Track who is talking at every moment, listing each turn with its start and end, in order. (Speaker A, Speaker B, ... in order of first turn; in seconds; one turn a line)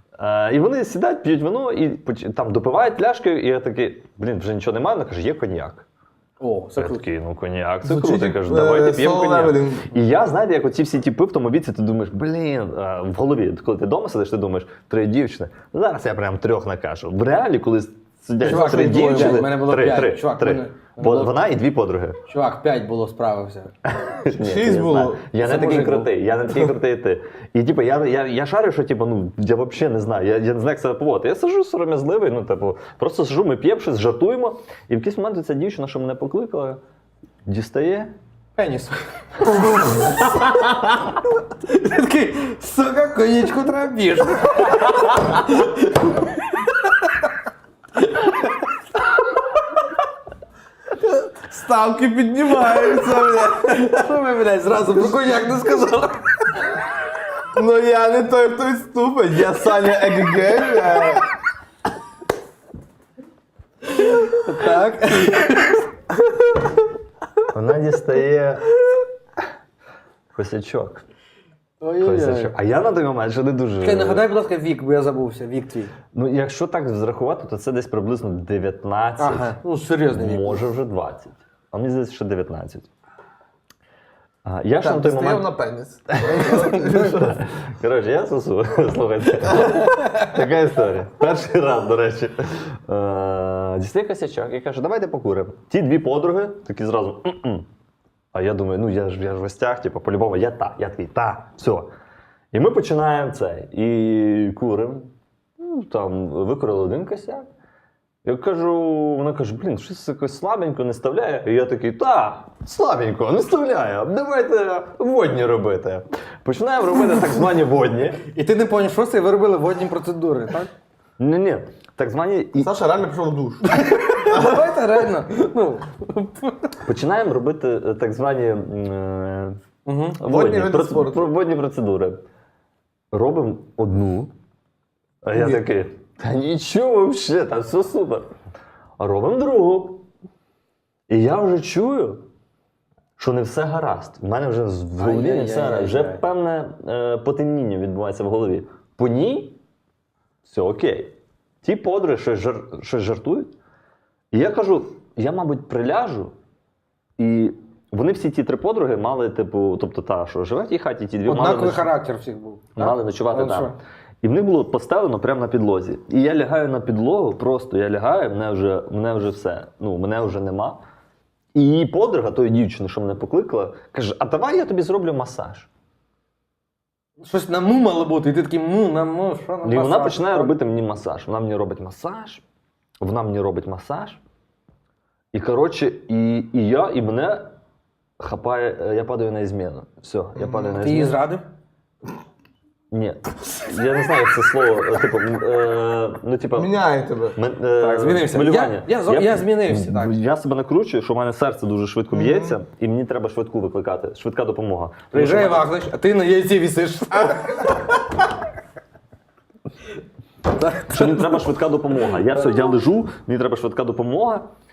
Speaker A: 0.2-5.9
Speaker B: 6.4-7.1
Speaker A: 6.8-22.2
Speaker C: 7.8-9.9
Speaker B: 18.4-21.5
Speaker C: 18.5-19.4
Speaker B: 22.3-23.7
Speaker A: 23.9-36.8
Speaker C: 24.3-25.3
Speaker B: 25.4-26.1
Speaker A: 37.5-38.1
Speaker B: 38.6-40.5
Speaker A: 39.5-40.9
Speaker B: 41.5-47.2
Speaker B: 48.0-48.7
Speaker C: 51.2-53.7
Speaker B: 52.8-56.9
Speaker C: 57.5-61.3
Speaker B: 63.9-65.8
Speaker A: 67.5-68.7
Speaker A: 70.3-71.0
Speaker B: 71.8-72.5
Speaker A: 72.0-74.2
Speaker B: 73.8-75.9
Speaker A: 76.1-79.6
Speaker B: 79.2-80.7
Speaker A: 80.1-82.9
Speaker A: 84.5-85.5
Speaker C: 84.8-87.4
Speaker A: 86.1-97.7
Speaker A: 98.3-101.9
Speaker A: 102.5-107.5
Speaker A: 108.2-118.2
Speaker B: 118.3-120.7
Speaker A: 121.2-122.7
Speaker C: 122.6-124.5
Speaker B: 123.7-126.7
Speaker A: 126.8-129.6
Speaker B: 129.9-130.2
Speaker A: 130.2-132.2
Speaker C: 130.2-131.3
Speaker A: 133.1-134.3
Speaker A: 135.2-138.3
Speaker B: 135.4-135.6
Speaker A: 139.0-140.1
Speaker A: 141.1-142.2
Speaker A: 143.2-149.6
Speaker B: 145.0-146.2
Speaker A: 150.4-153.5
Speaker A: 154.3-156.3
Speaker A: 157.2-161.9
Speaker B: 161.3-163.8
Speaker A: 162.8-170.8
Speaker A: 171.6-175.7
Speaker B: 177.2-180.6
Speaker A: 179.7-182.4
Speaker A: 183.0-184.2
Speaker A: 185.3-187.5
Speaker A: 188.2-191.2
Speaker C: 190.4-190.7
Speaker B: 190.7-191.4
Speaker A: 192.9-196.8
Speaker C: 196.6-197.4
Speaker A: 197.3-205.7
Speaker B: 197.8-200.2
Speaker C: 202.1-202.6
Speaker B: 205.1-208.0
Speaker B: 210.5-211.4
Speaker A: 210.8-214.4